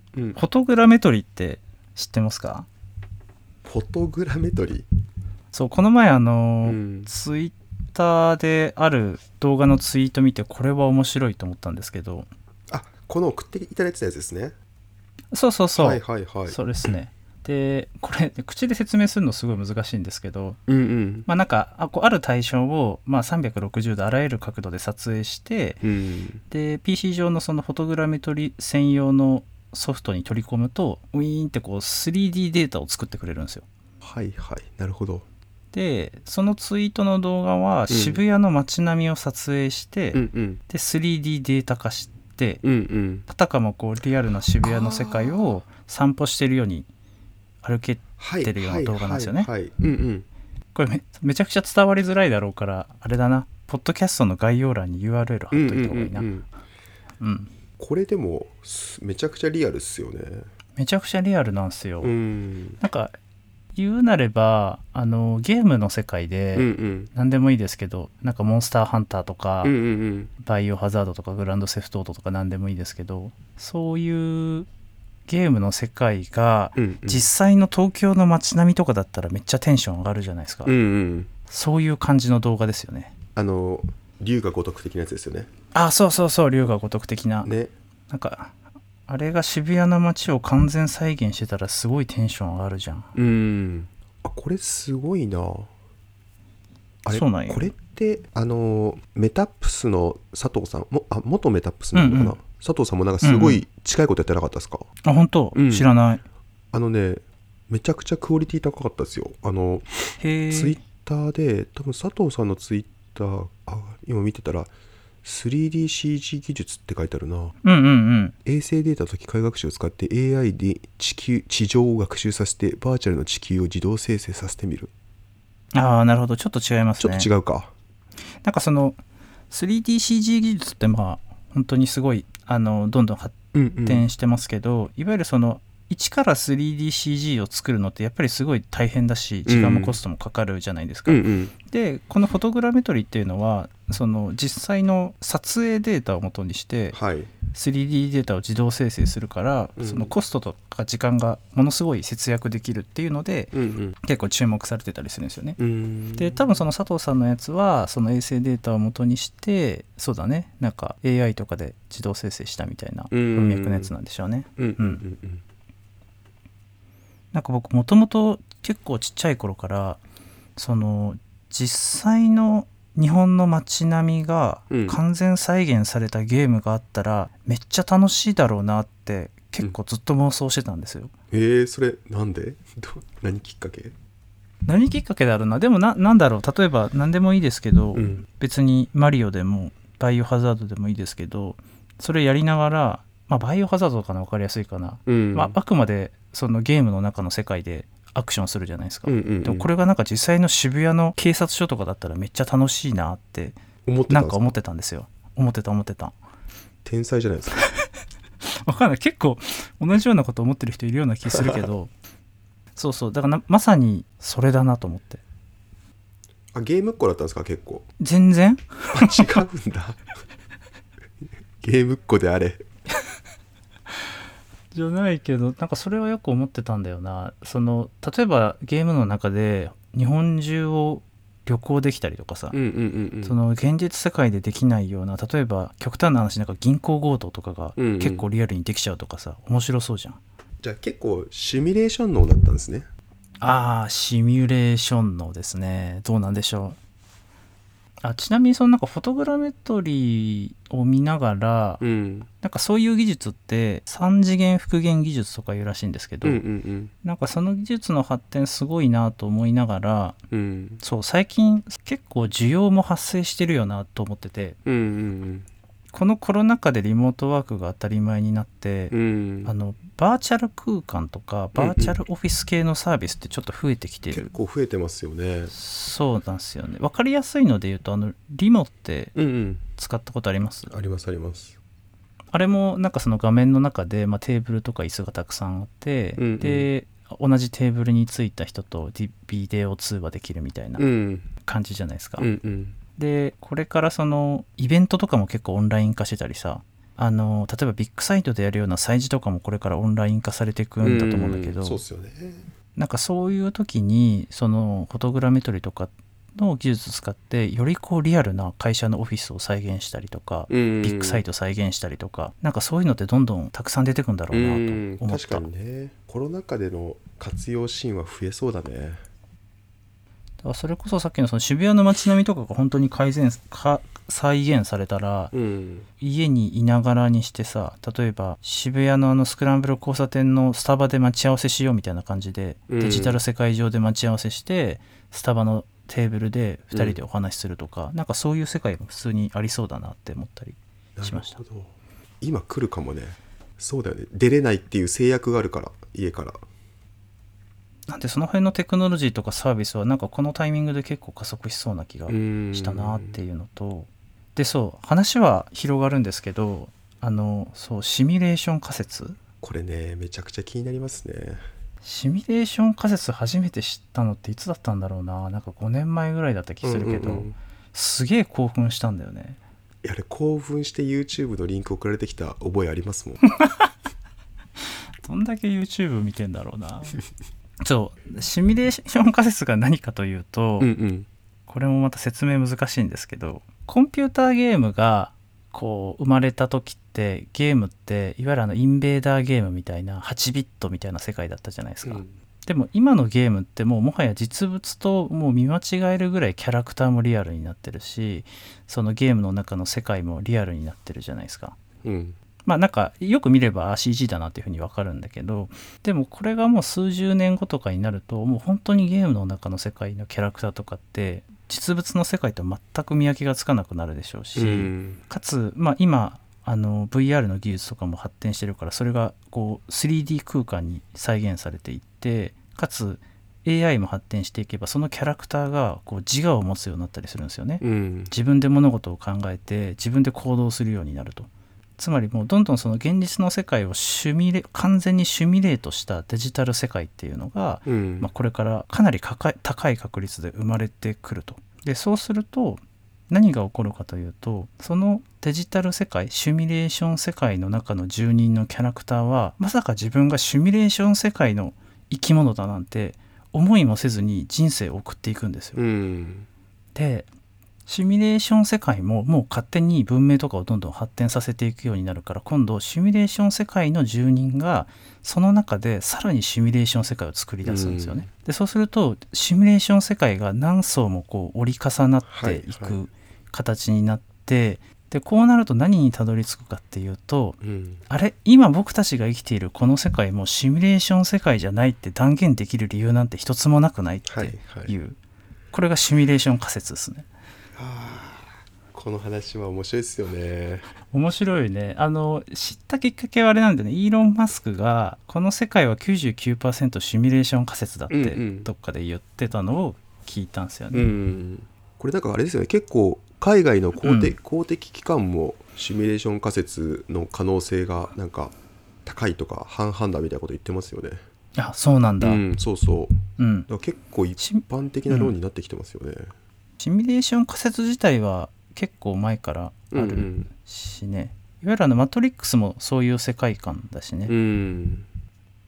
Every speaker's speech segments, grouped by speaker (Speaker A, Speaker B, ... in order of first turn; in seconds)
Speaker A: 0.1-0.4, 3.6-4.9, 6.6-7.1, 12.7-14.5, 15.8-16.6, 20.7-21.3, 25.8-26.4, 34.0-35.3, 37.9-38.2, 40.1-40.6, 42.6-43.2, 44.6-45.6, 48.2-50.2, 55.5-56.5, 57.8-60.5, 62.0-62.8, 66.5-67.1, 69.6-70.3, 76.8-77.3, 80.7-81.3, 83.3-85.5, 87.4-87.7, 93.1-95.7, 97.0-104.9, 105.5-105.9, 106.7-114.7, 115.2-117.5, 118.4-124.9, 127.0-127.7, 133.5-134.1, 139.4-140.0, 141.1-141.5, 146.9-147.3, 149.8-150.1, 153.5-154.0, 155.6-156.5, 163.1-163.9, 164.6-165.4, 174.7-175.0, 181.3-183.9, 187.9-188.2, 195.1-195.6, 199.0-199.7, 203.8-204.5, 206.8-207.7, 211.3-211.7, 216.5-217.9, 218.9-220.0, 221.6-222.6, 232.5-233.4, 237.8-238.2, 240.6-242.9, 251.8-252.3, 256.2-256.9, 260.3-260.8, 264.6-265.4, 268.9-269.5, 271.5-272.0, 274.1-275.5, 279.1-279.6, 280.7-281.6, 286.2-286.7, 290.8-291.3, 292.2-292.8, 300.8-302.5, 310.5-311.2, 314.3-319.0, 325.3-325.9, 332.7-333.2, 336.7-337.0, 341.0-346.4, 352.1-353.2, 359.4-361.4, 366.6-367.4, 369.8-373.2, 380.6-381.1, 391.8-392.1, 401.8-402.2, 414.3-415.0, 427.6-428.1, 437.6-438.1, 455.5-456.3, 467.4-468.1, 472.1-472.8, 477.4-477.9, 484.1-484.7, 487.6-490.7, 497.9-498.5, 500.7-511.0, 512.0-516.1, 519.7-520.3, 524.1-524.9
Speaker B: 0.3-2.7, 5.5-12.3, 15.3-20.6, 21.2-25.8, 26.5-33.6, 35.7-42.6, 43.3-46.9, 47.6-49.5, 50.7-56.3, 57.2-57.5, 60.8-62.1, 62.8-63.1, 63.7-69.7, 70.4-74.7, 75.3-80.7, 81.5-83.1, 85.7-87.5, 88.1-88.5, 89.1-93.1, 97.1-97.7, 101.9-102.4, 103.2-103.6, 105.0-106.2, 110.2-110.8, 117.6-118.3, 125.7-127.3, 128.4-129.0, 129.5-146.9, 147.5-155.6, 156.2-165.0, 167.3-170.0, 170.6-181.1, 184.7-203.6, 204.1-206.1, 208.7-211.9, 212.8-215.2, 218.0-219.4, 224.7-232.6, 233.2-240.2, 243.4-246.8, 248.0-251.8, 252.4-256.4, 257.0-260.2, 260.8-264.6, 265.9-274.3, 275.5-279.1, 279.8-280.7, 282.3-290.9, 291.4-292.3, 293.0-301.8, 302.8-315.4, 320.4-325.3, 326.0-341.4, 347.9-359.2, 361.8-369.4, 373.4-373.7, 375.0-377.0, 377.6-380.7, 381.5-401.6, 402.4-455.6, 456.7-457.1, 457.7-485.0, 485.5-487.1, 490.9-500.9, 503.8-504.1, 511.4-512.2, 513.2-513.5, 514.2-515.1, 516.6-524.1